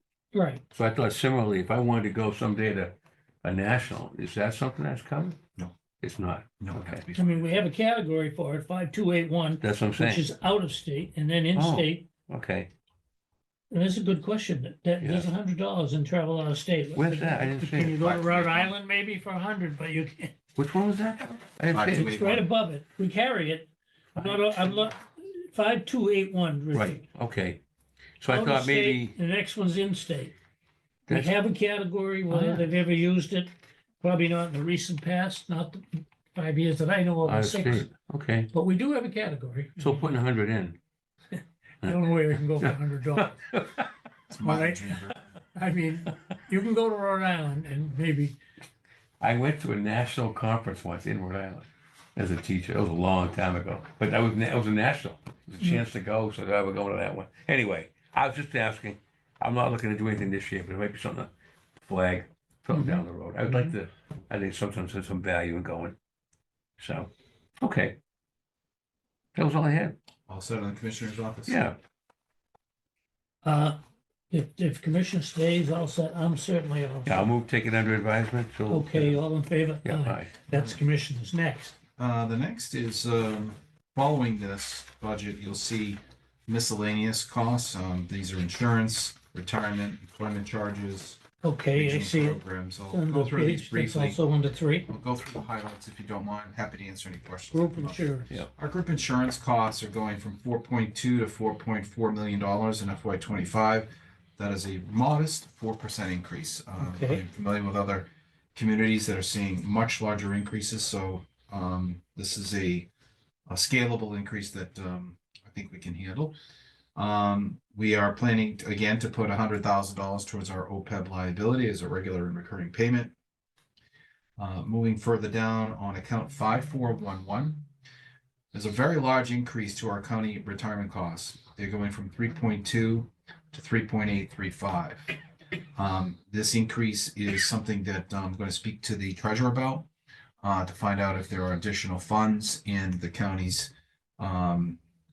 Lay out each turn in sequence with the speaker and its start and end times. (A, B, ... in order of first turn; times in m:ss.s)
0:00.3-0:00.6 A
0:00.7-0:05.4 B
0:06.0-0:07.0 B
0:06.6-0:07.7 C
0:07.1-0:12.1 A
0:09.6-0:10.2 B
0:11.5-0:12.7 B
0:13.7-0:20.4 A
0:15.0-0:15.3 B
0:16.9-0:18.0 B
0:17.8-0:18.7 C
0:20.6-0:22.1 B
0:21.7-0:22.5 C
0:21.8-0:27.0 A
0:24.1-0:24.9 B
0:26.7-0:27.6 B
0:28.2-0:29.1 B
0:28.3-0:30.4 A
0:31.1-0:31.3 B
0:31.1-0:37.9 A
0:32.3-0:32.6 B
0:37.2-0:38.5 B
0:38.5-0:40.1 A
0:39.8-0:40.8 B
0:41.3-0:43.3 A
0:41.8-0:43.9 B
0:44.3-0:45.2 C
0:44.4-0:48.4 A
0:49.2-1:01.3 B
1:01.8-1:06.0 B
1:02.7-1:03.7 A
1:06.8-1:07.1 B
1:07.6-1:08.0 B
1:09.3-1:10.0 B
1:10.3-1:11.6 C
1:11.5-1:11.8 B
1:13.4-1:13.8 A
1:14.3-1:17.4 A
1:17.0-1:19.2 B
1:18.7-1:21.8 A
1:19.8-1:20.3 B
1:20.5-1:20.8 C
1:22.0-1:31.2 C
1:31.4-1:34.9 A
1:31.7-1:34.2 C
1:34.9-1:52.9 C
1:37.5-1:38.3 A
1:46.8-1:47.2 A
1:53.5-1:56.4 C
1:57.0-2:03.1 C
2:04.4-2:07.6 C
2:08.5-2:15.1 C
2:15.7-2:19.9 C
2:20.4-2:24.8 C